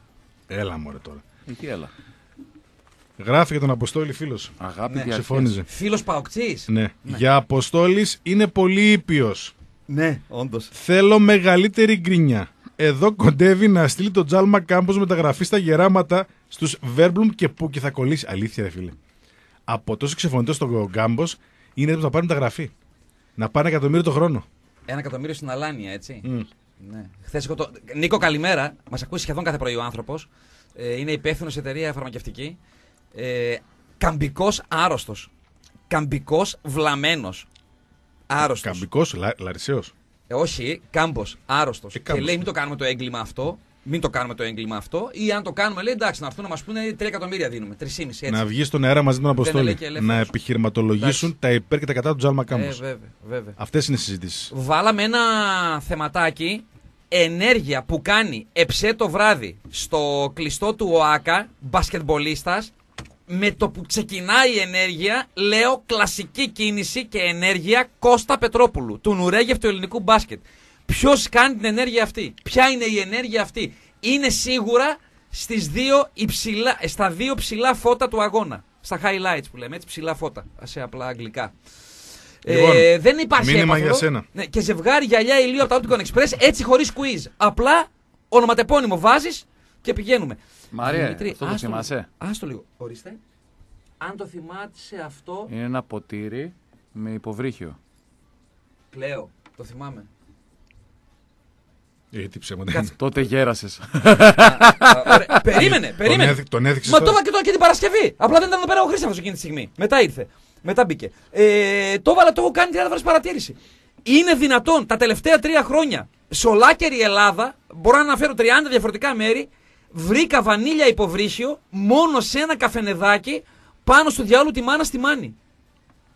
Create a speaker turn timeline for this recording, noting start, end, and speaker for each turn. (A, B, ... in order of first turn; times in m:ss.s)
0:00.5-0:01.2 A
0:01.5-0:01.9 B
0:03.2-0:04.5 A
0:04.6-0:05.5 B
0:04.9-0:07.2 C
0:05.1-0:05.7 A
0:06.7-0:09.5 A
0:09.9-0:10.7 C
0:10.7-0:19.0 A
0:19.7-0:22.7 A
0:23.4-0:24.5 A
0:24.9-0:26.3 C
0:26.8-0:32.6 C
0:33.1-0:35.3 C
0:35.9-0:37.5 C
0:38.3-0:38.8 C
0:38.4-0:39.9 A
0:40.3-0:48.4 C
0:41.9-0:42.4 A
0:48.3-0:52.8 A
0:49.4-0:50.3 C
0:51.0-0:51.3 C
0:52.5-0:53.6 C
0:53.6-0:54.5 A
0:54.5-1:02.7 C
1:03.3-1:21.5 C
1:22.4-1:33.2 C
1:22.4-1:24.3 A
1:30.7-1:32.1 B
1:34.0-1:35.5 C
1:35.5-1:37.8 B
1:38.9-1:40.1 C
1:42.1-1:42.9 A
1:42.9-1:45.2 B
1:44.4-2:05.4 C
1:45.5-1:47.2 A